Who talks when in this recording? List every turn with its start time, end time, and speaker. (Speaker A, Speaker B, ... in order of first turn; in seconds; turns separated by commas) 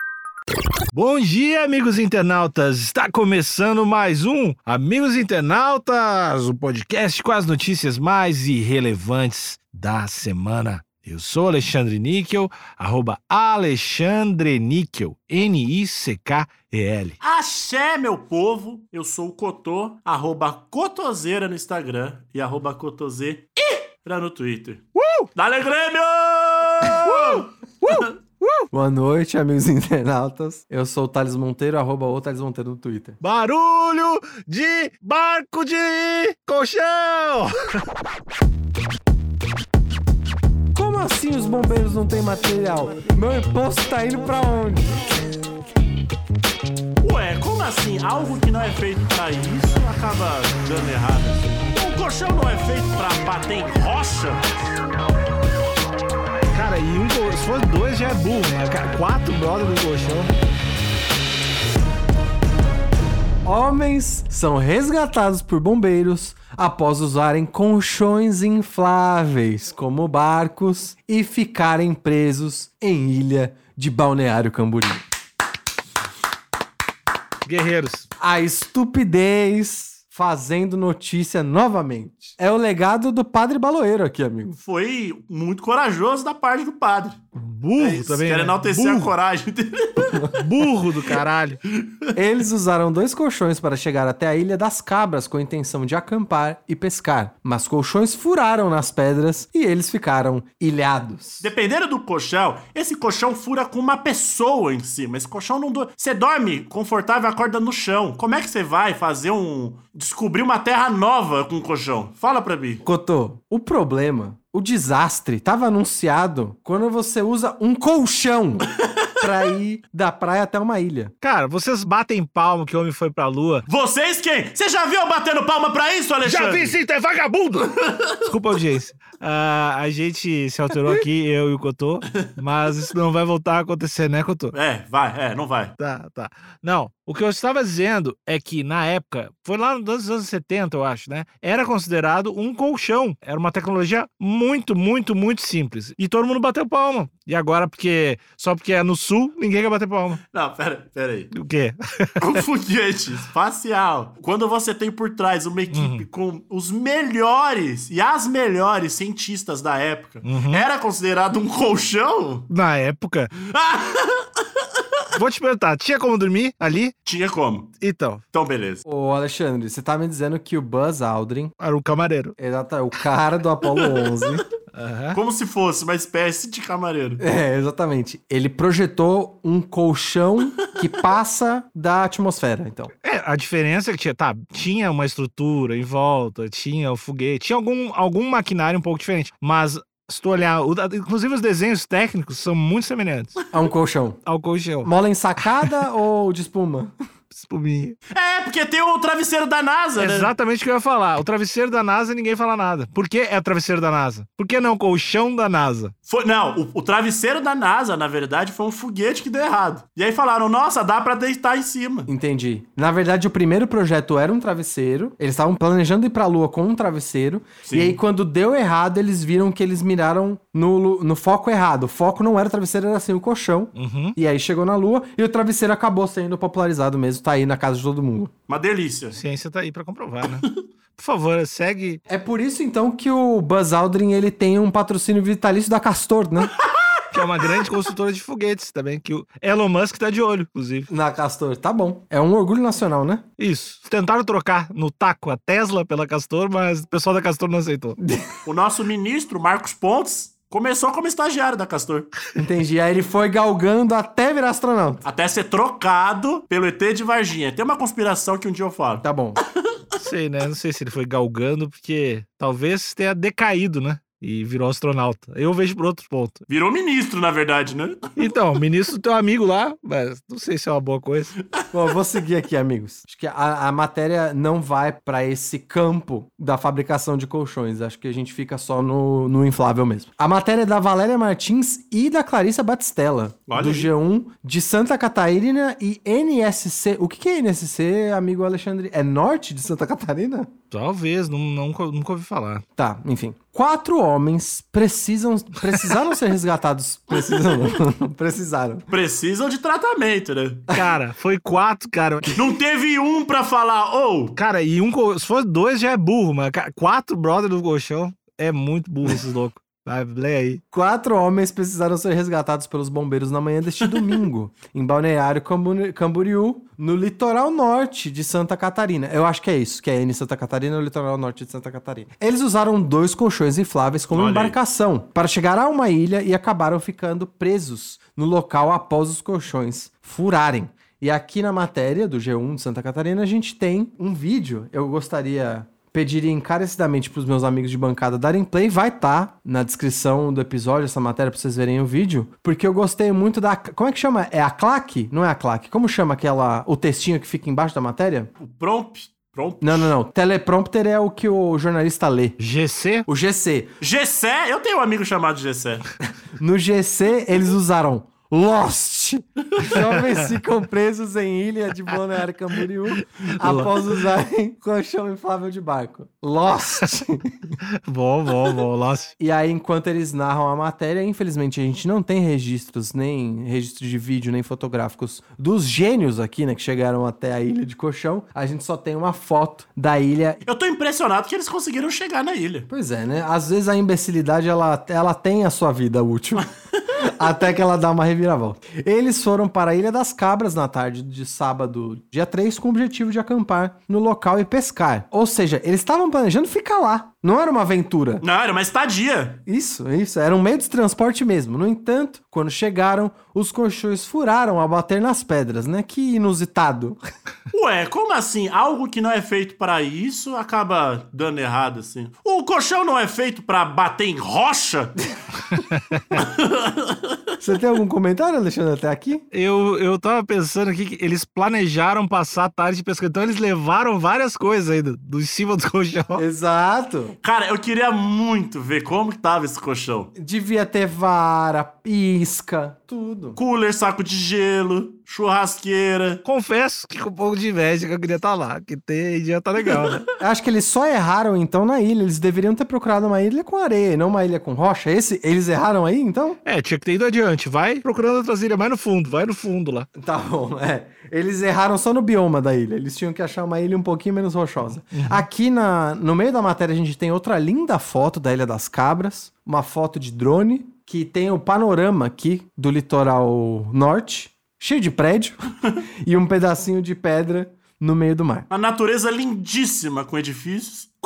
Speaker A: 0.9-17.2, Speaker B: 17.2-24.8, Speaker A: 24.9-25.3, Speaker B: 25.3-28.1, Speaker A: 27.1-28.7, Speaker C: 28.7-33.2, Speaker A: 33.2-37.5, Speaker C: 40.7-45.1, Speaker B: 47.0-54.5, Speaker A: 56.5-60.3, Speaker C: 63.4-75.0, Speaker A: 77.4-78.1, Speaker C: 78.2-84.5, Speaker B: 84.5-87.2, Speaker A: 87.3-89.1, Speaker B: 87.8-92.1, Speaker A: 90.3-91.6, Speaker C: 92.1-101.5, Speaker B: 101.4-112.8, Speaker C: 112.8-118.7, Speaker C: 119.2-121.1, Speaker A: 121.2-123.7, Speaker B: 123.7-126.8, Speaker A: 126.2-134.5, Speaker B: 127.8-128.2, Speaker B: 134.5-135.8, Speaker A: 135.8-150.2, Speaker B: 150.3-151.3, Speaker A: 151.3-152.4, Speaker B: 152.2-162.5, Speaker A: 155.7-156.1, Speaker A: 160.2-160.7, Speaker A: 162.5-163.3, Speaker B: 163.3-165.0, Speaker A: 165.1-166.9, Speaker B: 167.0-167.7, Speaker A: 167.8-168.2, Speaker B: 168.3-168.8, Speaker C: 168.8-171.5, Speaker A: 171.6-172.3, Speaker C: 172.4-174.4, Speaker B: 173.7-174.0, Speaker A: 174.7-175.2, Speaker B: 175.1-177.2, Speaker C: 177.2-182.9, Speaker A: 183.0-193.3, Speaker C: 193.5-194.2, Speaker A: 194.2-194.9, Speaker C: 194.8-196.9, Speaker A: 195.4-195.8, Speaker A: 197.3-198.0, Speaker B: 198.1-200.3, Speaker A: 200.0-205.9, Speaker B: 206.1-212.1, Speaker C: 212.1-228.3, Speaker B: 217.6-218.0, Speaker A: 223.7-224.2, Speaker B: 228.5-229.2, Speaker A: 229.1-230.4, Speaker B: 230.2-230.5, Speaker A: 230.9-232.0, Speaker C: 232.1-236.6, Speaker A: 237.1-240.9, Speaker C: 240.9-243.2, Speaker A: 243.4-248.0, Speaker C: 248.0-248.3, Speaker B: 248.4-252.1, Speaker C: 252.3-255.0, Speaker B: 255.0-259.4, Speaker C: 259.0-259.4, Speaker A: 260.0-266.4, Speaker B: 266.5-268.2, Speaker A: 268.2-271.4, Speaker C: 271.7-290.5, Speaker B: 283.5-283.9, Speaker A: 290.7-292.6, Speaker C: 292.8-298.9, Speaker B: 298.9-300.7, Speaker A: 300.7-302.3, Speaker B: 302.3-304.4, Speaker A: 304.4-310.6, Speaker C: 310.7-348.3, Speaker B: 313.8-314.2, Speaker B: 324.1-324.6, Speaker B: 348.4-349.9, Speaker C: 349.6-352.4, Speaker A: 352.4-353.1, Speaker C: 353.1-353.7, Speaker B: 353.8-355.8, Speaker C: 356.4-367.5, Speaker A: 363.2-363.8, Speaker A: 367.8-369.1, Speaker C: 369.2-380.4, Speaker B: 380.4-382.7, Speaker C: 382.7-386.5, Speaker C: 387.0-398.2, Speaker B: 398.2-399.4, Speaker C: 399.5-407.0, Speaker B: 407.5-415.1, Speaker A: 415.5-416.0, Speaker B: 416.1-417.2, Speaker C: 417.4-419.2, Speaker A: 419.3-426.2, Speaker C: 426.1-427.2, Speaker B: 427.2-430.1, Speaker C: 430.1-433.4, Speaker B: 433.3-436.2, Speaker A: 436.2-440.1, Speaker C: 440.2-446.4, Speaker A: 446.4-449.9, Speaker C: 450.0-465.4, Speaker A: 454.9-455.2, Speaker C: 466.1-468.5, Speaker B: 468.5-470.9